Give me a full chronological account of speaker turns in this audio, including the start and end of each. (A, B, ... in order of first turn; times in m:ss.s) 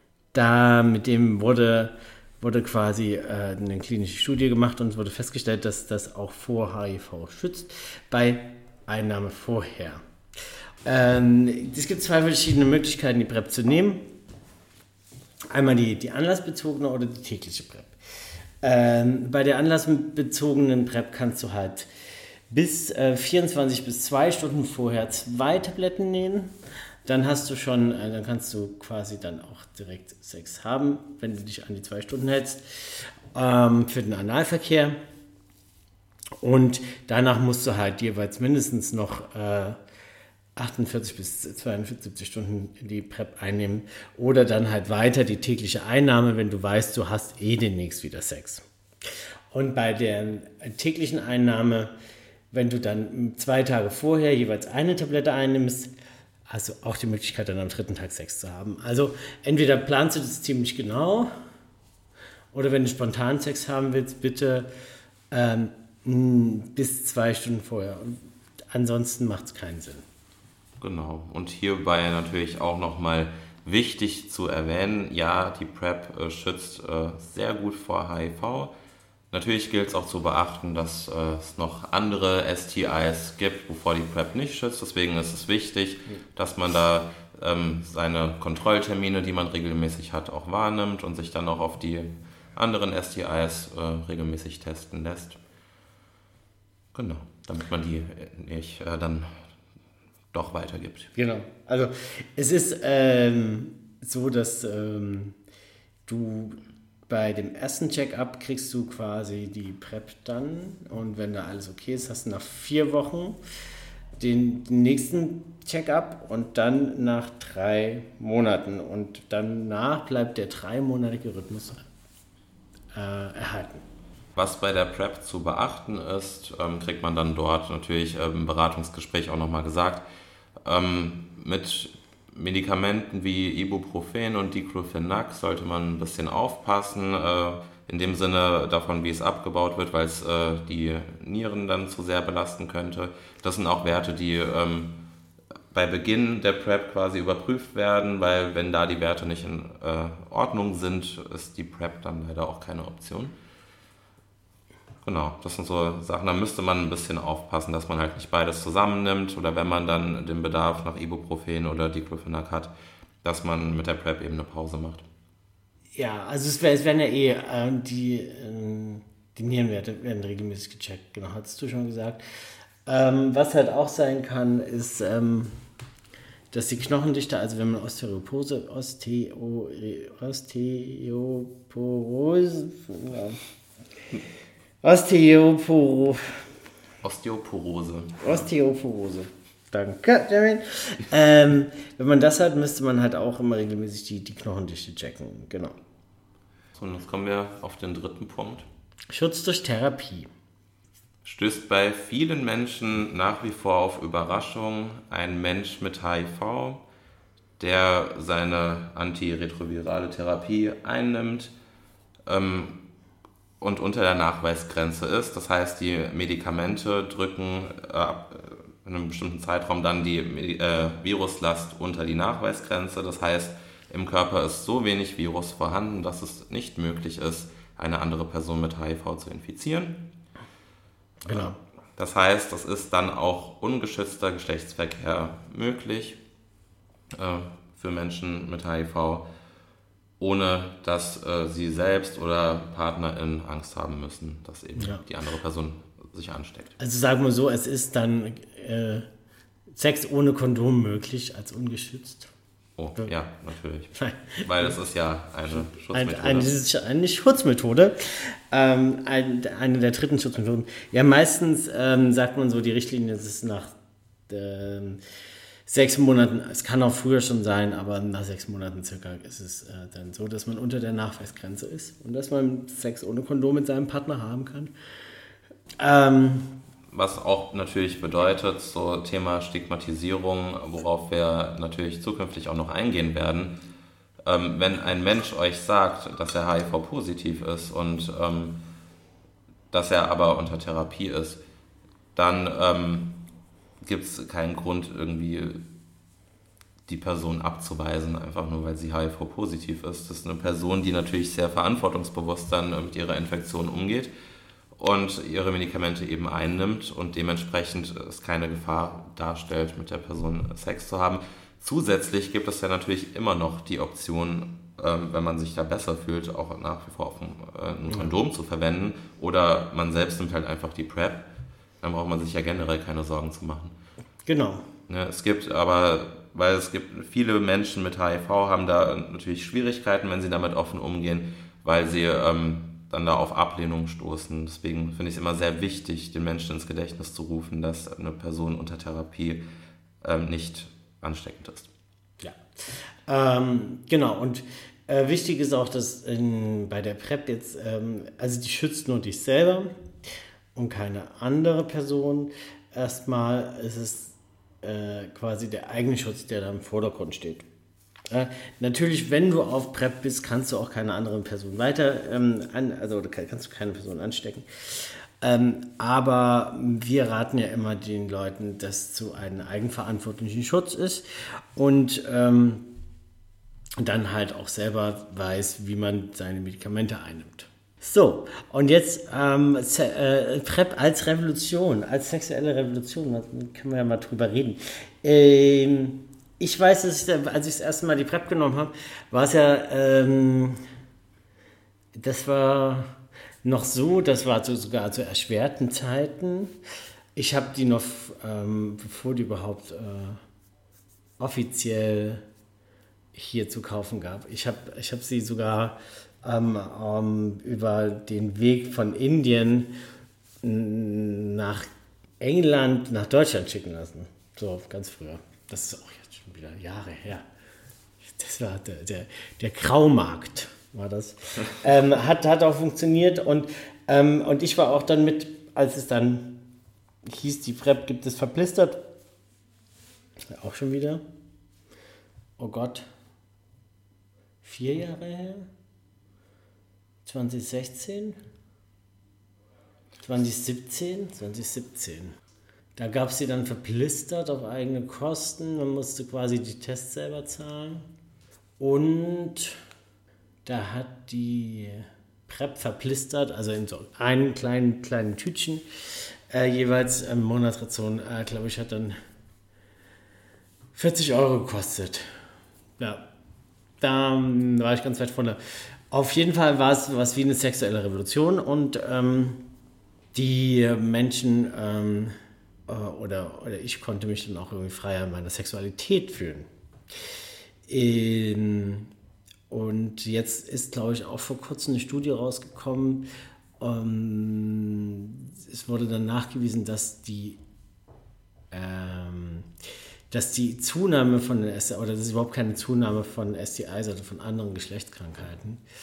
0:00.3-0:10.0 A
0:10.8-0:14.1 A
0:15.5-0:18.0 A
0:18.6-0:21.9 A
0:22.5-0:26.5 A
0:27.0-0:35.0 A
0:36.4-0:39.8 A
0:40.6-0:48.6 A
0:49.5-0:51.9 A
0:52.5-0:55.9 A
0:56.5-1:01.3 A
1:02.5-1:04.7 A
1:05.3-1:08.2 A
1:08.7-1:10.0 A
1:10.8-1:18.7 B
1:19.3-1:35.4 B
1:36.9-1:39.4 B
1:40.3-1:41.1 B
1:41.1-1:45.4 A
1:46.1-1:53.4 A
1:54.2-2:01.8 A
2:02.9-2:03.8 A
2:04.4-2:10.0 B
2:10.6-2:25.0 B
2:25.7-2:33.3 B
2:35.0-2:42.7 B
2:43.2-2:45.0 B
2:46.0-2:52.2 A
2:52.8-2:55.6 A
2:56.5-3:03.4 A
3:04.8-3:06.2 A
3:07.0-3:08.5 B
3:08.2-3:15.7 A
3:16.7-3:18.6 B
3:19.1-3:20.3 A
3:21.2-3:26.8 B
3:27.6-3:31.5 B
3:32.2-3:32.8 B
3:33.6-3:50.0 B
3:51.2-3:51.6 A
3:51.3-3:56.2 B
3:57.1-3:59.2 B
4:00.2-4:06.7 B
4:04.8-4:05.0 A
4:06.8-4:09.0 A
4:09.7-4:12.3 A
4:12.8-4:16.5 B
4:13.9-4:14.8 A
4:15.5-4:23.7 A
4:24.3-4:25.0 A
4:25.6-4:34.7 A
4:35.8-4:36.5 A
4:36.9-4:43.6 B
4:44.2-4:48.6 B
4:49.7-4:51.4 B
4:52.2-4:53.2 B
4:53.8-4:55.6 B
4:56.9-5:04.1 B
5:04.8-5:21.2 B
5:17.9-5:18.2 A
5:21.8-5:23.7 B
5:24.2-5:24.6 A
5:24.9-5:39.4 B
5:40.0-5:41.7 B
5:43.1-5:49.7 A
5:50.5-5:57.4 A
5:58.1-6:12.7 A
6:13.8-6:30.6 A
6:31.9-6:36.5 A
6:37.2-6:40.2 A
6:41.2-6:42.2 A
6:43.1-6:49.7 A
6:50.4-6:51.6 A
6:52.2-6:57.2 A
6:58.0-7:06.4 A
7:07.1-7:08.8 A
7:10.3-7:11.0 A
7:12.4-7:12.8 A
7:14.4-7:15.5 A
7:17.0-7:18.2 A
7:20.0-7:22.2 A
7:22.8-7:27.8 A
7:28.6-7:29.6 A
7:30.4-7:38.9 A
7:40.7-7:42.1 A
7:42.8-7:43.0 A
7:43.8-7:49.4 A
7:50.1-7:52.1 A
7:52.7-7:56.5 A
7:57.7-7:58.9 A
7:59.5-8:03.1 A
8:03.6-8:07.4 A
8:08.5-8:09.5 A
8:10.1-8:15.6 A